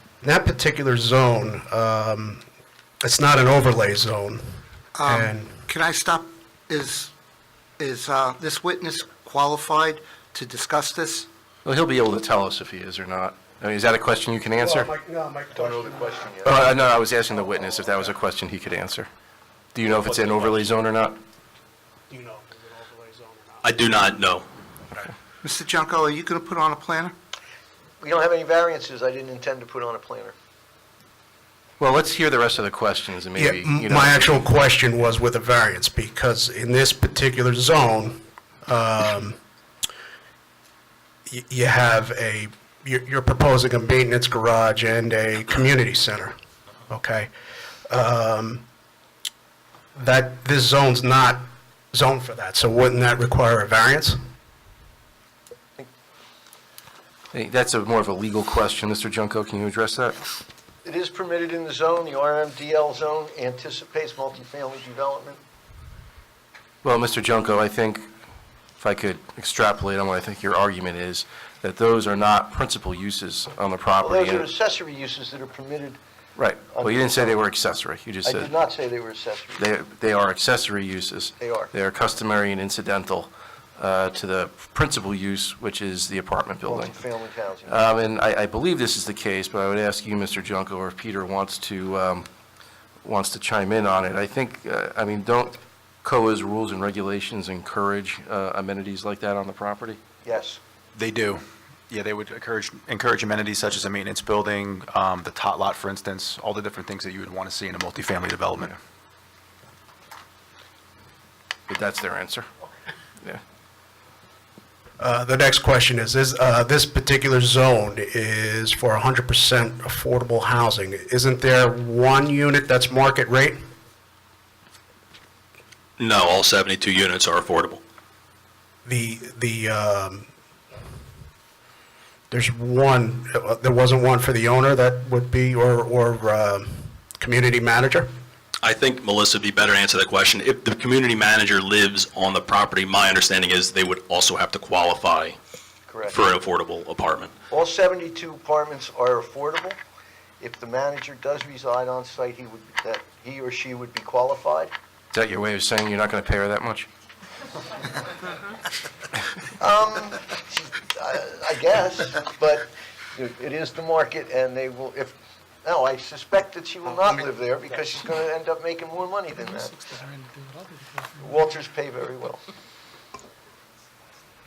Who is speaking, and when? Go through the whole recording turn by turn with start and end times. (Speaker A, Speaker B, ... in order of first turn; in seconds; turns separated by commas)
Speaker A: 0.2-2.4, Speaker A: 3.0-5.6, Speaker B: 4.9-7.1, Speaker B: 7.8-11.3, Speaker C: 11.6-14.9, Speaker A: 14.5-16.8, Speaker D: 15.9-16.3, Speaker C: 16.4-19.1, Speaker C: 19.7-21.2, Speaker A: 22.1-23.7, Speaker E: 23.6-24.4, Speaker B: 25.4-27.1, Speaker D: 28.0-30.3, Speaker C: 31.8-34.5, Speaker A: 33.4-39.4, Speaker A: 41.3-46.3, Speaker A: 46.9-47.3, Speaker A: 47.9-48.6, Speaker A: 50.0-54.2, Speaker C: 57.3-60.2, Speaker D: 60.8-65.4, Speaker C: 66.8-68.1, Speaker C: 68.8-74.5, Speaker D: 74.0-76.0, Speaker C: 76.3-78.5, Speaker D: 76.7-77.4, Speaker D: 78.2-79.7, Speaker C: 79.6-87.0, Speaker D: 81.4-81.7, Speaker D: 86.6-87.9, Speaker C: 87.7-92.3, Speaker C: 93.0-100.0, Speaker D: 100.2-100.6, Speaker F: 100.9-108.7, Speaker C: 111.7-112.5, Speaker A: 115.0-123.6, Speaker E: 126.0-127.8, Speaker A: 128.8-130.3, Speaker A: 132.3-138.1, Speaker E: 138.6-145.4, Speaker D: 145.9-146.2, Speaker E: 146.1-147.3, Speaker D: 147.5-149.8, Speaker D: 150.4-154.7, Speaker C: 155.1-156.9, Speaker D: 159.6-170.0, Speaker D: 171.2-172.4